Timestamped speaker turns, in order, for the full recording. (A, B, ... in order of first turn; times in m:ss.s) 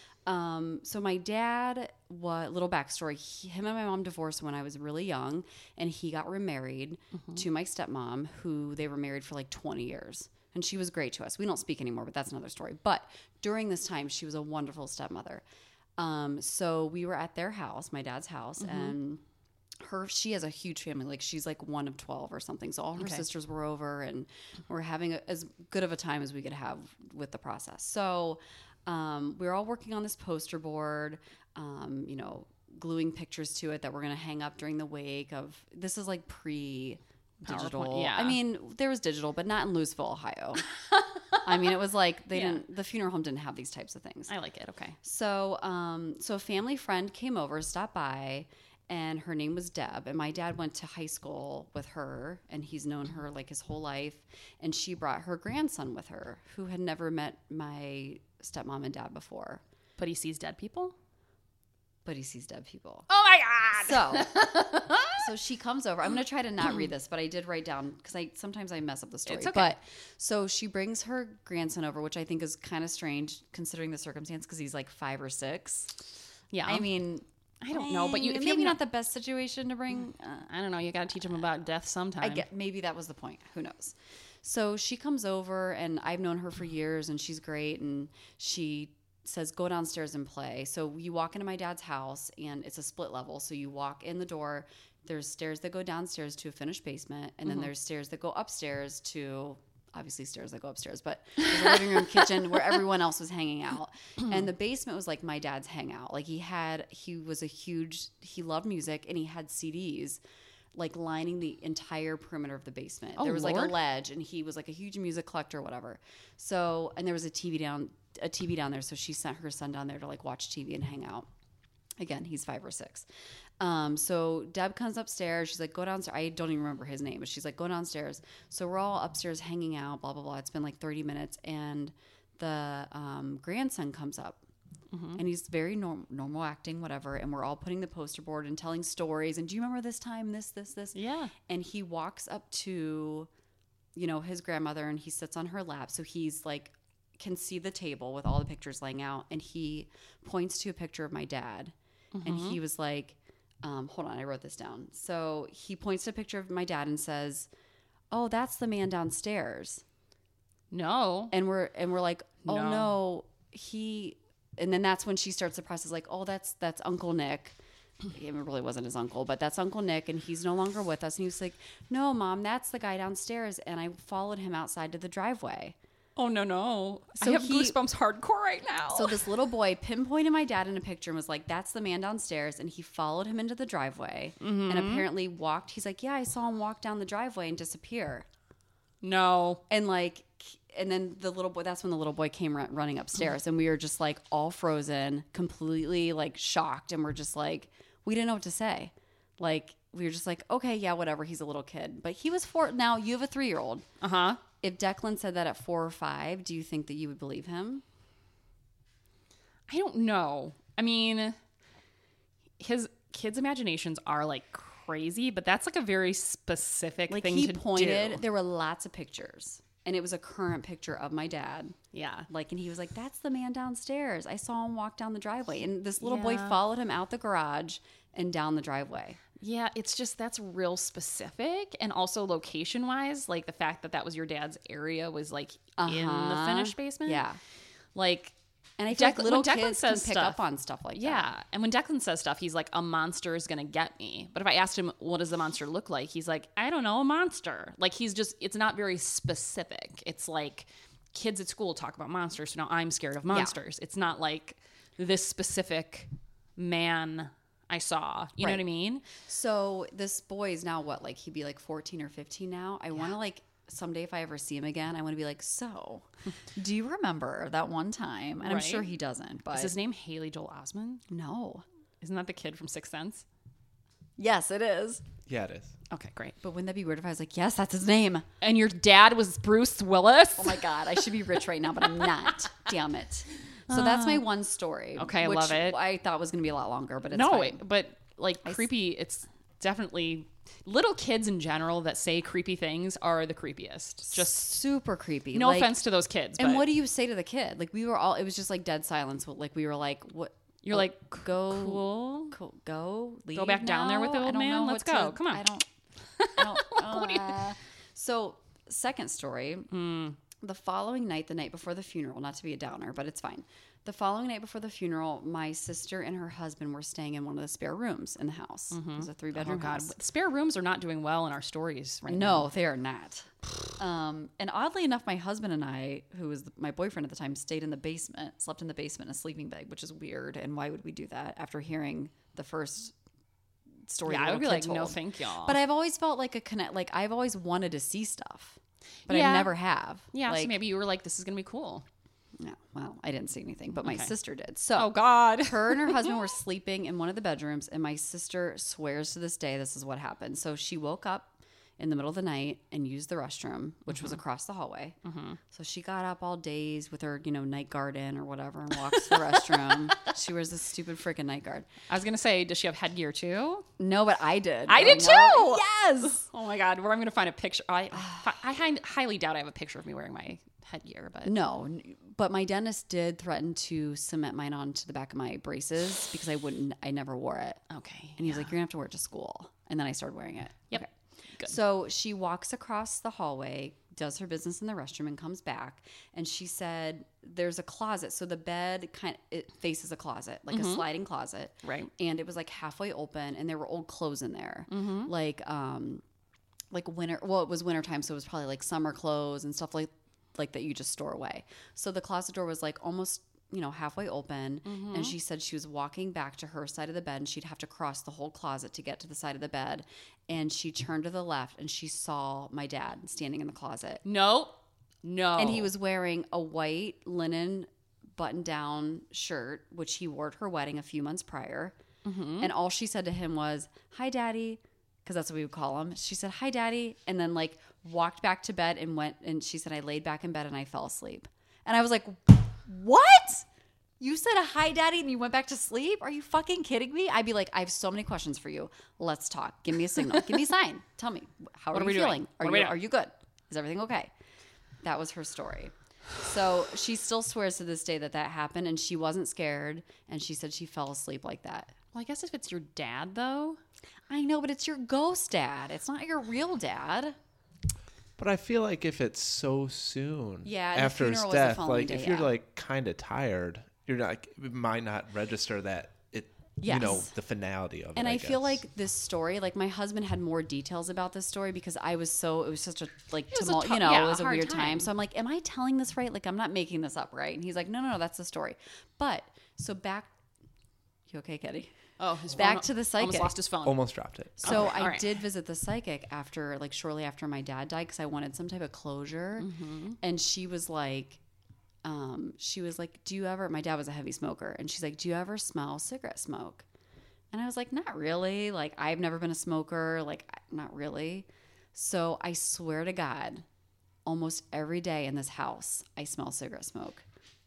0:00.2-0:15.4 A
0:16.0-0:19.2 A
0:18.6-0:18.9 B
0:19.8-0:40.6 A
0:23.0-0:23.2 B
0:37.4-0:38.4 B
0:41.4-0:44.3 A
0:42.3-0:42.6 B
0:44.3-0:45.0 B
0:45.0-0:59.6 A
1:00.0-1:00.9 B
1:02.0-1:03.1 A
1:03.1-1:05.2 B
1:03.7-1:04.5 A
1:05.1-1:15.9 A
1:09.2-1:09.7 B
1:16.5-1:16.9 B
1:16.6-1:20.5 A
1:17.6-1:18.8 B
1:20.4-1:22.4 B
1:22.2-1:50.2 A
1:50.7-2:01.3 A
1:53.2-1:53.7 B
2:02.0-2:03.1 A
2:03.6-2:14.4 A
2:14.9-2:15.2 B
2:15.2-2:23.3 A
2:20.9-2:21.3 B
2:23.9-2:37.5 A
2:32.1-2:32.6 B
2:38.1-2:39.8 A
2:40.7-2:41.3 B
2:41.3-2:47.6 A
2:42.4-2:43.0 B
2:48.1-2:55.8 A
2:56.2-2:59.3 B
2:57.2-2:57.8 A
2:58.9-3:08.2 A
3:04.4-3:05.1 B
3:09.0-3:09.6 B
3:09.7-3:23.8 A
3:24.0-3:24.4 B
3:24.6-3:27.8 A
3:29.7-3:31.4 B
3:32.6-3:38.2 B
3:37.1-3:41.8 A
3:41.9-3:42.3 B
3:42.3-3:49.2 A
3:46.0-3:46.6 B
3:49.4-3:57.2 B
3:55.8-3:57.4 A
3:57.9-3:58.3 B
3:58.8-4:01.3 A
3:58.9-4:00.4 B
4:00.9-4:19.0 B
4:13.3-4:13.6 A
4:19.1-4:29.7 A
4:28.4-4:28.9 B
4:29.5-4:31.0 B
4:31.1-4:31.6 A
4:32.0-4:33.2 B
4:34.2-4:35.0 A
4:35.3-4:35.7 C
4:35.9-4:36.4 B
4:36.4-4:38.2 A
4:38.4-4:41.1 B
4:40.4-4:47.6 A
4:43.7-4:44.3 B
4:45.0-4:45.8 B
4:47.1-4:54.5 B
4:54.1-4:55.8 A
4:55.3-4:56.7 B
4:56.4-5:05.7 A
5:00.6-5:02.4 B
5:03.3-5:05.4 B
5:06.2-5:07.4 B
5:06.4-5:09.7 A
5:09.7-5:10.2 B
5:10.4-5:19.9 A
5:18.7-5:22.5 B
5:22.1-5:32.9 A
5:33.9-5:40.5 A
5:34.0-5:35.6 B
5:39.1-5:39.5 B
5:40.1-5:41.8 B
5:42.4-5:55.0 A
5:43.8-5:44.1 B
5:44.8-5:46.2 B
5:53.9-5:54.2 B
5:55.0-5:55.4 B
5:55.5-6:01.7 A
5:59.0-5:59.4 B
6:01.9-6:03.7 B
6:03.8-6:06.2 A
6:04.7-6:11.3 B
6:08.0-6:08.2 A
6:11.2-6:17.6 A
6:17.7-6:18.5 B
6:18.2-6:20.9 A
6:21.4-6:36.0 A
6:30.5-6:30.8 B
6:31.6-6:31.9 B
6:34.7-6:35.1 B
6:36.7-6:54.0 A
6:44.6-6:45.2 B
6:54.0-6:55.7 B
6:55.4-7:01.8 A
7:02.0-7:02.5 B
7:02.4-7:13.4 A
7:14.0-7:24.1 A
7:21.7-7:22.8 B
7:24.8-7:31.7 A
7:31.9-7:33.6 B
7:34.1-7:37.2 A
7:38.2-7:48.6 C
7:40.4-7:42.3 A
7:46.6-7:47.1 A
7:48.0-8:00.1 A
7:53.3-7:54.9 B
8:01.1-8:01.7 A
8:02.0-8:03.8 B
8:02.3-8:03.3 A
8:03.6-8:04.7 C
8:04.4-8:05.1 B
8:04.4-8:11.2 A
8:09.4-8:10.0 B
8:11.8-8:16.6 A
8:17.3-8:23.4 A
8:24.0-8:27.0 A